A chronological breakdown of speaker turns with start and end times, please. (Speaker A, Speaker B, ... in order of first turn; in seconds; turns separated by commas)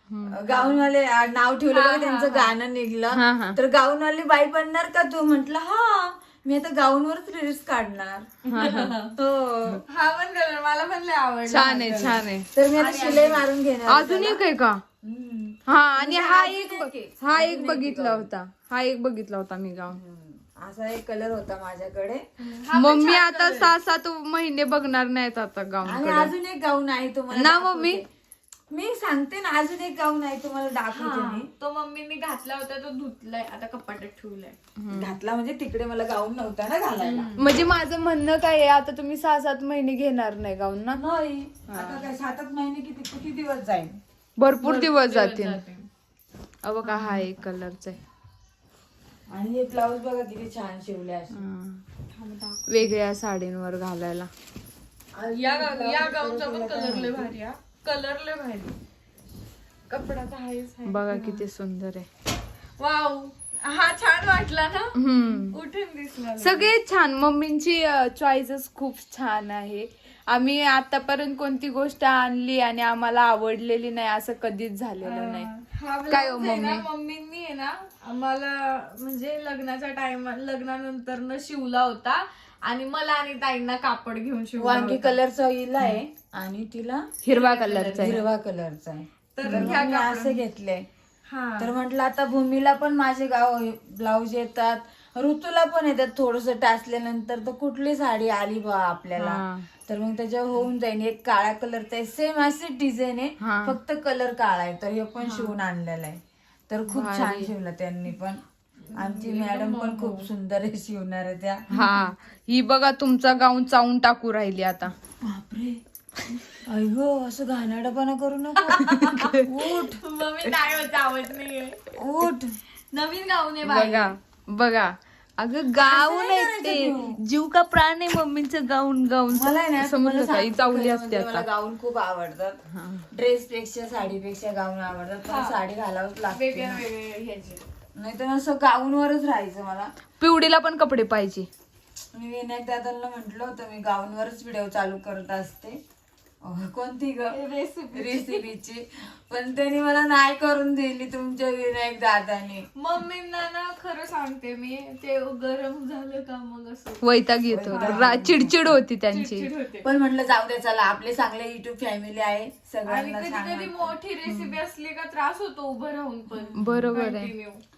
Speaker A: 0.1-0.4, Speaker B: 0.3-9.8, Speaker C: 0.5-0.8, Speaker C: 1.7-2.6, Speaker A: 3.1-3.6, Speaker A: 8.5-8.9, Speaker C: 8.6-9.1, Speaker C: 9.9-12.2, Speaker A: 11.5-12.5, Speaker B: 12.5-14.4, Speaker C: 12.8-13.4, Speaker A: 13.9-14.8, Speaker B: 15.0-18.3, Speaker A: 15.7-20.0, Speaker B: 19.9-22.2, Speaker C: 22.4-23.7, Speaker A: 22.7-26.3, Speaker B: 25.8-28.0, Speaker A: 27.3-28.0, Speaker B: 28.7-31.5, Speaker C: 30.9-34.6, Speaker A: 34.8-35.1, Speaker B: 34.9-37.3, Speaker C: 37.0-37.5, Speaker A: 37.4-41.0, Speaker B: 40.9-44.0, Speaker A: 41.7-42.1, Speaker A: 44.4-45.6, Speaker C: 44.6-45.9, Speaker A: 46.6-48.0, Speaker B: 49.3-51.4, Speaker A: 51.4-51.8, Speaker C: 52.2-52.9, Speaker A: 52.7-54.3, Speaker B: 55.1-57.3, Speaker C: 55.3-58.8, Speaker C: 59.9-61.4, Speaker A: 60.9-62.1, Speaker C: 62.8-66.7, Speaker A: 65.0-65.6, Speaker A: 66.4-75.5, Speaker C: 75.0-85.2, Speaker A: 76.1-76.8, Speaker B: 84.6-87.1, Speaker A: 87.2-88.2, Speaker C: 87.3-88.2, Speaker B: 88.0-90.9, Speaker C: 89.4-90.4, Speaker A: 89.5-89.8, Speaker C: 91.3-91.7, Speaker B: 91.6-108.4, Speaker A: 99.2-99.7, Speaker A: 103.4-103.8, Speaker A: 106.9-107.5, Speaker C: 108.9-110.3, Speaker B: 109.0-111.7, Speaker A: 111.7-114.9, Speaker B: 115.2-115.8, Speaker B: 116.7-120.0, Speaker C: 118.6-121.9, Speaker B: 122.0-122.6, Speaker C: 122.9-124.1, Speaker A: 123.7-131.5, Speaker B: 125.8-127.2, Speaker B: 129.3-132.6, Speaker A: 132.7-133.1, Speaker B: 133.1-136.8, Speaker C: 135.2-135.6, Speaker C: 136.3-137.6, Speaker B: 138.0-139.9, Speaker A: 140.2-141.5, Speaker B: 142.1-145.8, Speaker B: 146.4-147.4, Speaker C: 147.3-148.5, Speaker B: 147.9-152.7, Speaker C: 152.8-157.1, Speaker A: 157.0-159.5, Speaker B: 157.5-158.8, Speaker C: 157.7-158.2, Speaker C: 159.1-159.9, Speaker B: 159.8-163.9, Speaker C: 162.9-167.6, Speaker A: 164.3-164.6, Speaker B: 166.4-166.9, Speaker A: 166.6-167.3